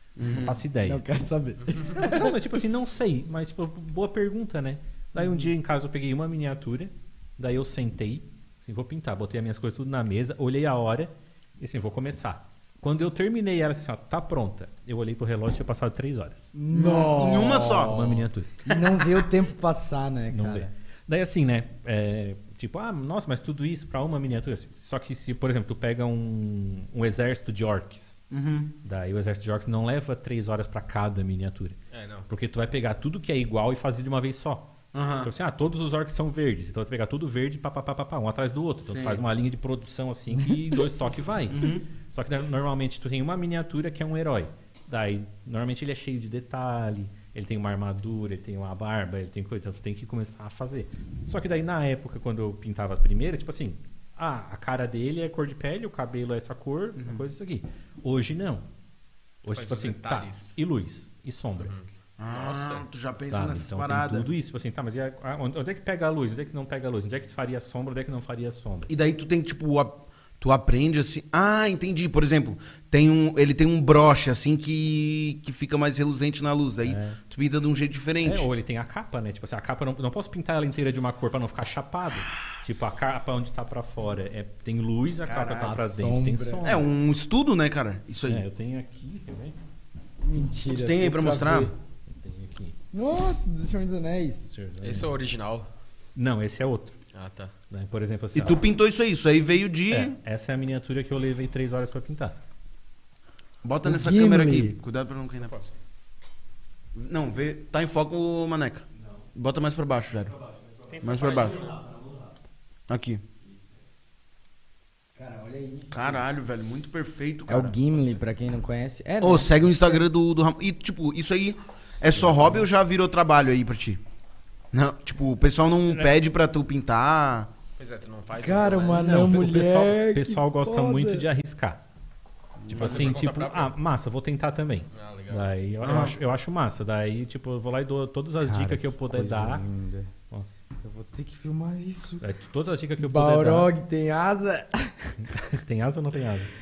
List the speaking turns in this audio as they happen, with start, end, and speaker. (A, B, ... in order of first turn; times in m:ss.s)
0:00.2-0:00.6 A
0:00.2-0:01.0 B
0:00.8-0:02.3 C
0:01.9-0:18.9 B
0:05.2-0:05.5 C
0:16.5-0:20.7 C
0:16.7-0:18.2 A
0:20.3-0:28.2 B
0:28.3-0:28.7 A
0:28.8-0:58.6 B
0:31.9-0:32.3 D
0:34.9-0:35.3 A
0:38.8-0:39.2 A
0:41.5-0:41.8 A
0:57.0-0:57.2 A
0:59.4-1:01.7 B
0:59.5-1:00.6 D
1:01.6-1:02.8 D
1:02.2-1:04.3 A
1:03.3-1:08.9 B
1:08.9-1:18.5 A
1:16.8-1:17.2 B
1:18.2-1:26.9 B
1:25.3-1:25.7 A
1:25.4-1:26.6 C
1:26.6-1:28.4 A
1:28.2-1:29.5 B
1:30.2-1:31.7 C
1:30.7-1:31.7 A
1:32.1-1:32.7 B
1:32.9-1:34.5 C
1:34.5-1:35.1 B
1:34.8-1:35.7 D
1:36.1-1:37.0 B
1:37.1-1:37.5 D
1:37.7-1:38.6 B
1:38.3-1:40.1 A
1:39.9-1:42.4 B
1:43.6-1:45.6 A
1:43.8-1:44.8 C
1:46.9-1:50.4 A
1:50.9-1:51.8 D
1:51.0-1:51.7 A
1:51.4-1:52.2 B
1:52.9-1:53.2 A
1:55.2-1:56.2 C
1:55.9-1:58.0 A
1:57.5-2:00.0 C
1:59.2-2:04.0 A
2:02.1-2:02.5 B
2:04.7-2:07.5 A
2:07.8-2:09.4 D
2:08.4-2:11.2 C
2:08.9-2:11.8 B
2:12.6-2:13.2 A
2:12.7-2:13.7 D
2:12.7-2:19.6 B
2:14.9-2:15.6 D
2:15.8-2:16.2 A
2:18.4-2:20.1 C
2:20.8-2:22.2 C
2:22.2-2:23.7 B
2:23.0-2:25.3 C
2:25.3-2:26.5 B